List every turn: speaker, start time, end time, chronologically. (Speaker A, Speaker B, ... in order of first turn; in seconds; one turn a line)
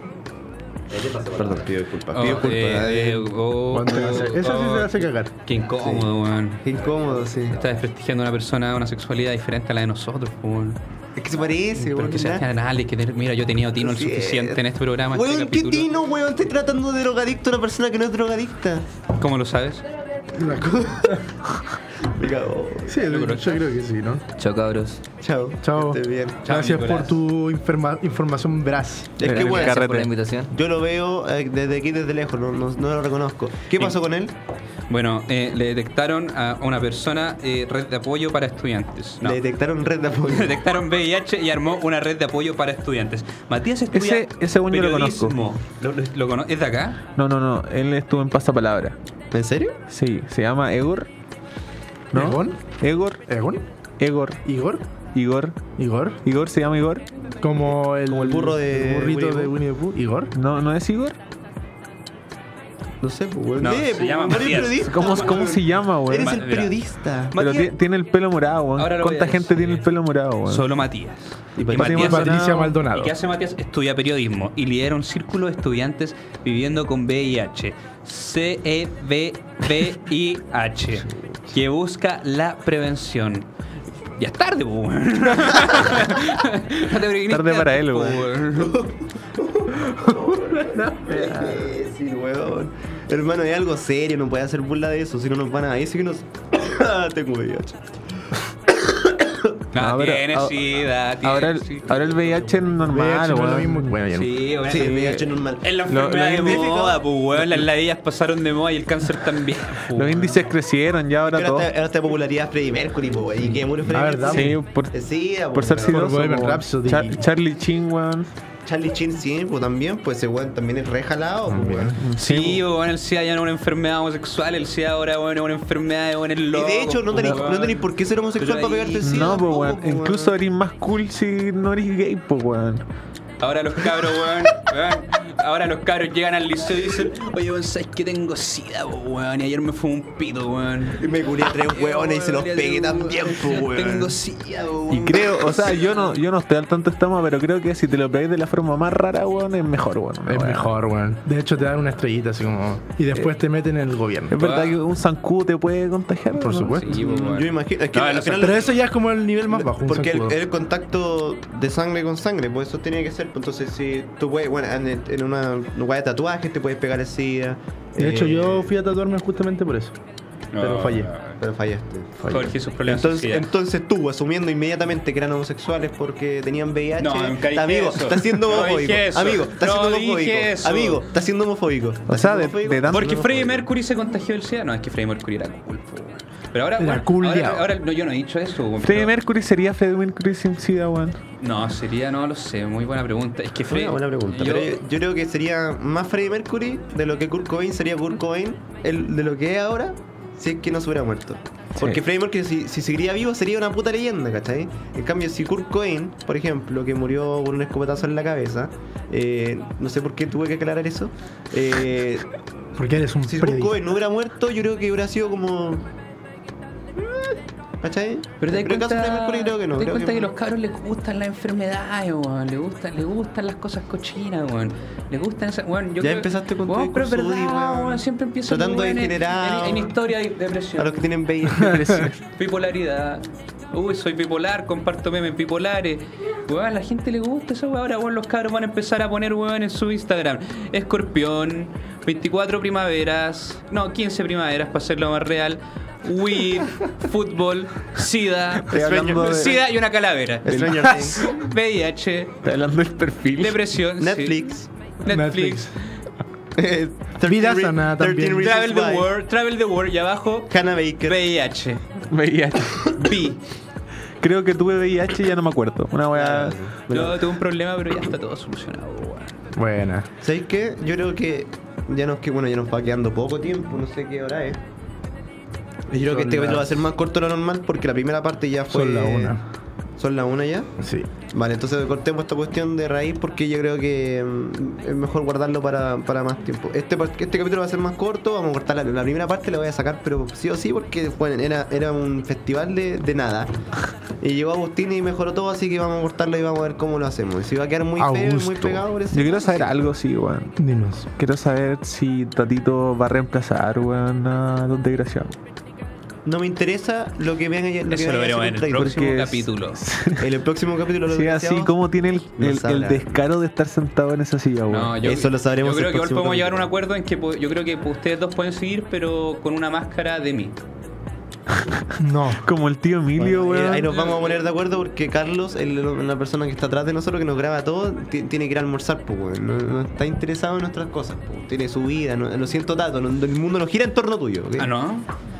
Speaker A: 0.9-1.8
Speaker B: 1.3-3.3
Speaker C: 2.1-6.6
Speaker D: 3.7-5.3
Speaker B: 3.9-4.2
Speaker B: 5.8-6.1
Speaker B: 6.6-7.6
Speaker A: 6.7-7.8
Speaker C: 7.5-10.8
Speaker B: 11.2-12.4
Speaker C: 11.8-15.9
Speaker B: 13.8-18.8
Speaker C: 19.1-19.8
Speaker B: 20.3-21.2
Speaker D: 20.4-21.1
Speaker B: 22.0-23.0
Speaker D: 22.9-24.2
Speaker C: 22.9-23.6
Speaker A: 24.4-25.0
Speaker B: 25.2-26.4
Speaker D: 25.6-29.1
Speaker C: 26.4-27.2
Speaker B: 29.2-29.9
Speaker E: 29.2-30.1
Speaker A: 29.2-30.5
Speaker B: 30.5-34.3
Speaker C: 34.9-39.4
Speaker B: 39.2-40.6
Speaker C: 40.2-47.0
Speaker E: 43.9-45.4
Speaker E: 47.1-49.0
Speaker B: 49.3-49.8
Speaker E: 49.9-51.1
Speaker E: 52.1-53.2
Speaker D: 52.1-52.6
Speaker D: 53.3-53.6
Speaker E: 54.0-54.4
Speaker D: 54.4-54.8
Speaker E: 55.1-55.6
Speaker D: 55.8-56.2
Speaker E: 56.2-57.1
Speaker D: 57.4-60.3
Speaker B: 57.6-59.5
Speaker E: 60.3-61.2
Speaker B: 63.0-67.4
Speaker C: 63.6-65.4
Speaker E: 64.8-66.4
Speaker C: 66.2-66.7
Speaker C: 67.3-67.7
Speaker E: 67.3-70.7
Speaker C: 68.8-69.9
Speaker C: 70.5-83.5
Speaker B: 71.5-72.7
Speaker D: 71.7-73.1
Speaker C: 84.2-88.8
Speaker E: 87.3-88.2
Speaker B: 88.5-98.3
Speaker E: 90.8-91.7
Speaker B: 98.9-99.5
Speaker C: 99.7-102.2
Speaker E: 99.8-100.6
Speaker E: 101.2-104.0
Speaker D: 102.8-104.3
Speaker C: 104.1-110.4
Speaker B: 104.7-107.0
Speaker E: 105.9-106.7
Speaker E: 107.3-107.6
Speaker E: 109.8-111.7
Speaker B: 111.3-116.1
Speaker D: 113.9-114.6
Speaker E: 114.2-114.9
Speaker E: 115.5-118.3
Speaker D: 115.8-117.2
Speaker B: 118.6-122.0
Speaker D: 121.5-122.0
Speaker E: 122.0-122.6
Speaker C: 122.2-129.4
Speaker B: 126.5-130.3
Speaker E: 127.1-127.5
Speaker E: 129.0-132.8
Speaker C: 133.4-146.1
Speaker B: 140.9-144.2
Speaker E: 144.9-150.7
Speaker D: 150.3-154.4
Speaker E: 154.3-156.9
Speaker C: 154.4-154.8
Speaker D: 156.4-157.0
Speaker C: 156.7-158.7
Speaker B: 156.9-158.8
Speaker D: 158.4-160.4
Speaker B: 159.4-168.7
Speaker D: 168.0-169.9
Speaker C: 170.5-171.4
Speaker D: 170.6-171.1
Speaker B: 171.4-183.7
Speaker C: 172.3-173.5
Speaker C: 177.0-181.0
Speaker E: 182.1-183.2
Speaker C: 182.9-189.1
Speaker D: 186.8-187.7
Speaker E: 188.8-191.2
Speaker C: 191.4-194.8
Speaker B: 193.7-212.3
Speaker D: 212.8-213.8
Speaker B: 213.2-215.9
Speaker B: 217.0-220.3
Speaker C: 218.4-231.1
Speaker B: 226.0-229.9
Speaker B: 230.8-232.1
Speaker E: 231.6-232.2
Speaker C: 232.2-252.4
Speaker E: 248.6-249.6
Speaker B: 248.8-249.6
Speaker B: 250.4-251.3
Speaker E: 252.4-253.6
Speaker C: 253.4-254.5
Speaker B: 254.0-254.7
Speaker C: 255.0-255.9
Speaker D: 255.1-255.7
Speaker B: 256.6-259.1
Speaker D: 257.2-258.5
Speaker C: 258.4-262.0
Speaker B: 260.5-261.2
Speaker E: 262.1-263.0
Speaker C: 262.9-263.4
Speaker E: 264.2-266.6
Speaker B: 266.1-267.3
Speaker C: 266.9-269.3
Speaker D: 269.5-270.1
Speaker B: 270.2-274.6
Speaker B: 275.9-279.4
Speaker D: 275.9-276.8
Speaker D: 278.7-279.4
Speaker B: 280.0-280.7
Speaker D: 280.8-281.1
Speaker B: 281.3-293.5
Speaker B: 294.2-299.8
Speaker D: 298.0-298.8
Speaker E: 299.1-300.6
Speaker D: 300.6-301.1
Speaker E: 301.1-305.4
Speaker B: 306.2-309.2
Speaker C: 307.9-309.8
Speaker E: 308.7-310.3
Speaker B: 310.2-311.7
Speaker E: 311.1-315.0
Speaker B: 312.4-313.2
Speaker C: 314.7-320.6
Speaker B: 315.0-316.7
Speaker E: 321.6-323.9
Speaker D: 322.0-322.4
Speaker B: 323.2-334.8
Speaker C: 323.8-324.4
Speaker C: 334.6-335.1